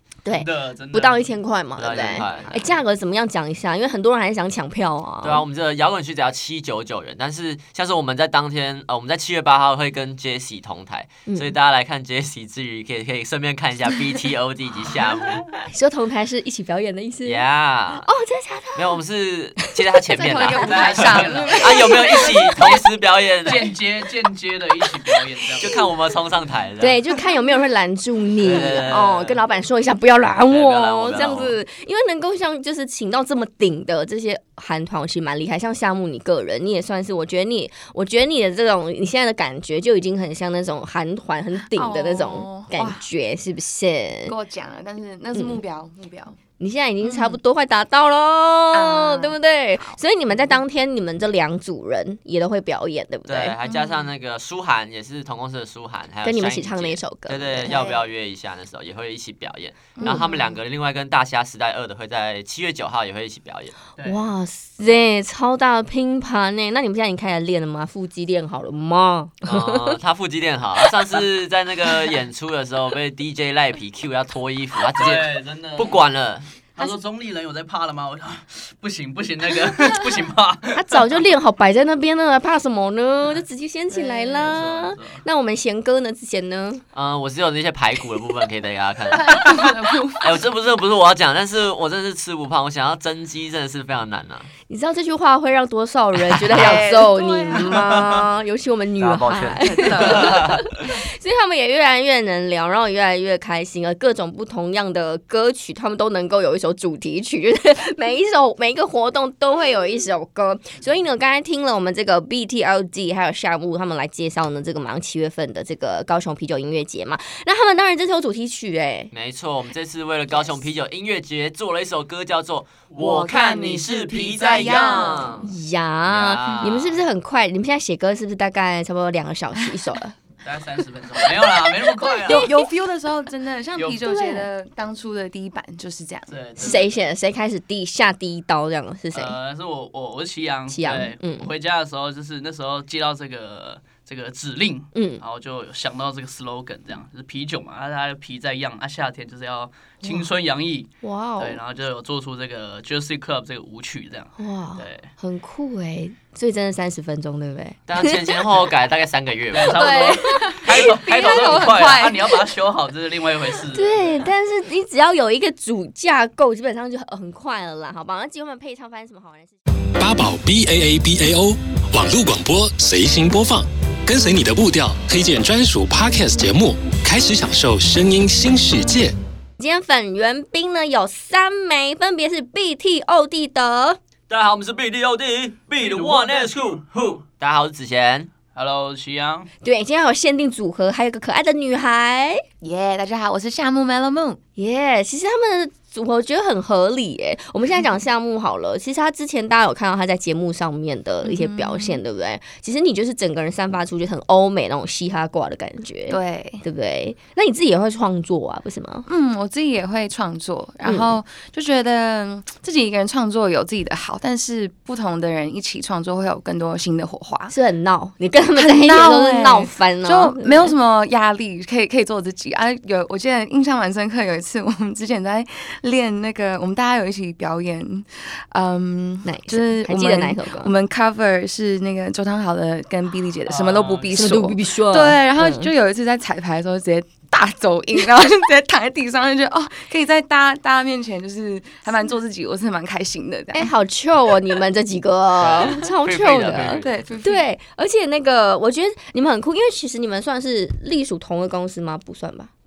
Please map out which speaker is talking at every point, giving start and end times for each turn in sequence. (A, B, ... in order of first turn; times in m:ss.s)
0:00.2-0:05.4 A
0:00.3-0:01.4 B
0:01.8-0:02.8 C
0:01.9-0:02.5 B
0:05.2-0:15.5 C
0:11.3-0:11.6 A
0:15.7-0:17.4 A
0:17.2-0:18.1 C
0:18.0-0:19.0 A
0:18.8-0:23.7 C
0:19.6-0:20.5 A
0:20.1-0:22.8 D
0:20.4-0:22.0 B
0:21.3-0:22.3 A
0:23.4-0:25.8 B
0:25.6-0:27.0 C
0:26.8-0:44.3 A
0:28.4-0:29.4 C
0:30.5-0:31.6 C
0:41.6-0:43.0 D
0:44.3-0:46.4 D
0:46.6-0:53.6 A
0:47.0-0:47.4 D
0:48.7-0:50.0 D
0:53.3-1:03.7 C
0:53.6-0:54.1 D
0:56.2-0:57.8 A
0:57.7-0:58.0 D
1:00.0-1:00.6 D
1:04.0-1:10.0 A
1:09.4-1:16.5 C
1:14.9-1:16.0 B
1:16.8-1:21.2 B
1:20.7-1:26.8 A
1:24.0-1:25.2 B
1:26.9-1:34.5 C
1:29.1-1:30.4 D
1:34.7-1:59.1 A
1:36.3-1:36.9 C
1:36.5-1:38.2 D
1:39.0-1:40.6 C
1:39.6-1:40.6 D
1:59.1-2:05.5 C
2:03.0-2:05.4 D
2:04.2-2:05.0 B
2:05.4-2:10.2 A
2:06.0-2:07.0 C
2:10.4-2:12.6 B
2:12.0-2:16.8 D
2:12.0-2:12.6 A
2:13.8-2:14.0 B
2:14.0-2:14.5 A
2:16.3-2:16.9 B
2:16.6-2:19.4 A
2:19.1-2:35.1 B
2:20.7-2:21.5 A
2:24.9-2:25.2 A
2:31.0-2:31.6 A
2:34.4-2:38.4 A
2:37.9-2:39.9 C
2:39.5-2:44.3 B
2:39.7-2:40.8 A
2:40.0-2:42.5 D
2:43.7-2:49.6 A
2:50.0-2:59.1 E
2:59.6-3:04.0 A
3:04.3-3:08.3 C
3:05.8-3:06.8 B
3:08.6-3:09.5 B
3:09.6-3:12.4 A
3:12.6-3:14.4 D
3:14.6-3:29.1 A
3:21.2-3:22.0 D
3:26.1-3:26.6 D
3:29.1-3:37.5 D
3:30.8-3:31.2 A
3:37.5-3:40.8 A
3:38.6-4:03.7 D
3:49.2-3:50.7 A
3:53.5-3:54.4 B
3:54.1-3:55.7 A
4:03.5-4:12.5 A
4:05.4-4:07.0 C
4:06.7-4:07.4 D